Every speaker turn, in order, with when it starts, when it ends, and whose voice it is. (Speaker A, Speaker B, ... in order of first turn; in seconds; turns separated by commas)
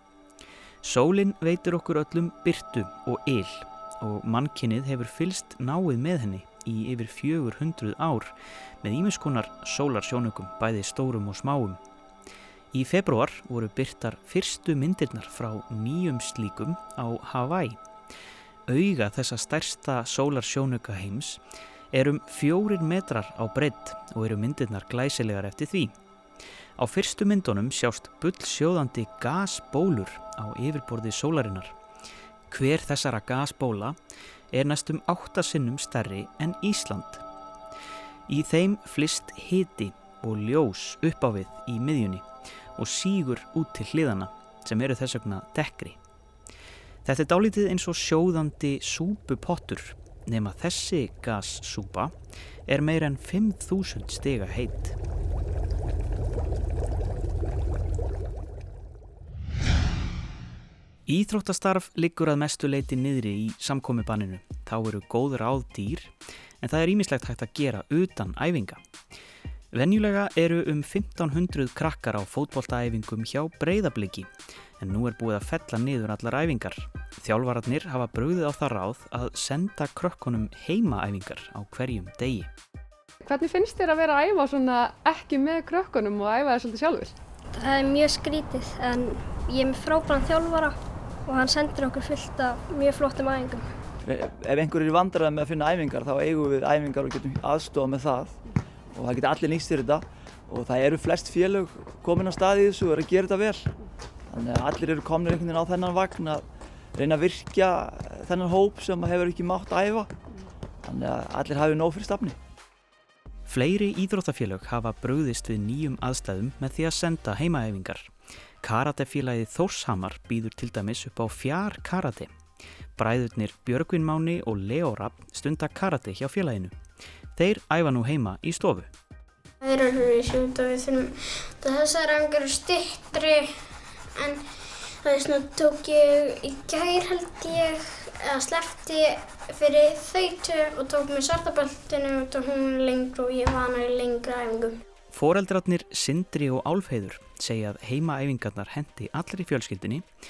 Speaker A: 0.8-8.3, Speaker A: 8.8-11.8, Speaker A: 12.7-17.8, Speaker A: 18.7-21.4, Speaker A: 21.9-25.9, Speaker A: 26.8-31.7, Speaker A: 32.5-34.0, Speaker A: 34.5-37.2, Speaker A: 38.3-42.2, Speaker A: 42.8-46.0, Speaker A: 47.0-52.1, Speaker A: 52.7-54.9, Speaker A: 61.1-68.8, Speaker A: 69.7-74.3, Speaker A: 74.8-82.5, Speaker B: 83.2-87.1, Speaker C: 87.5-93.7, Speaker D: 94.0-98.3, Speaker D: 98.9-103.7, Speaker D: 104.3-110.1, Speaker D: 110.8-112.4, Speaker A: 113.5-118.1, Speaker A: 118.6-122.3, Speaker A: 123.0-126.7, Speaker A: 127.3-128.9, Speaker E: 129.6-133.5, Speaker E: 134.2-134.4, Speaker E: 135.0-144.8, Speaker A: 145.1-150.0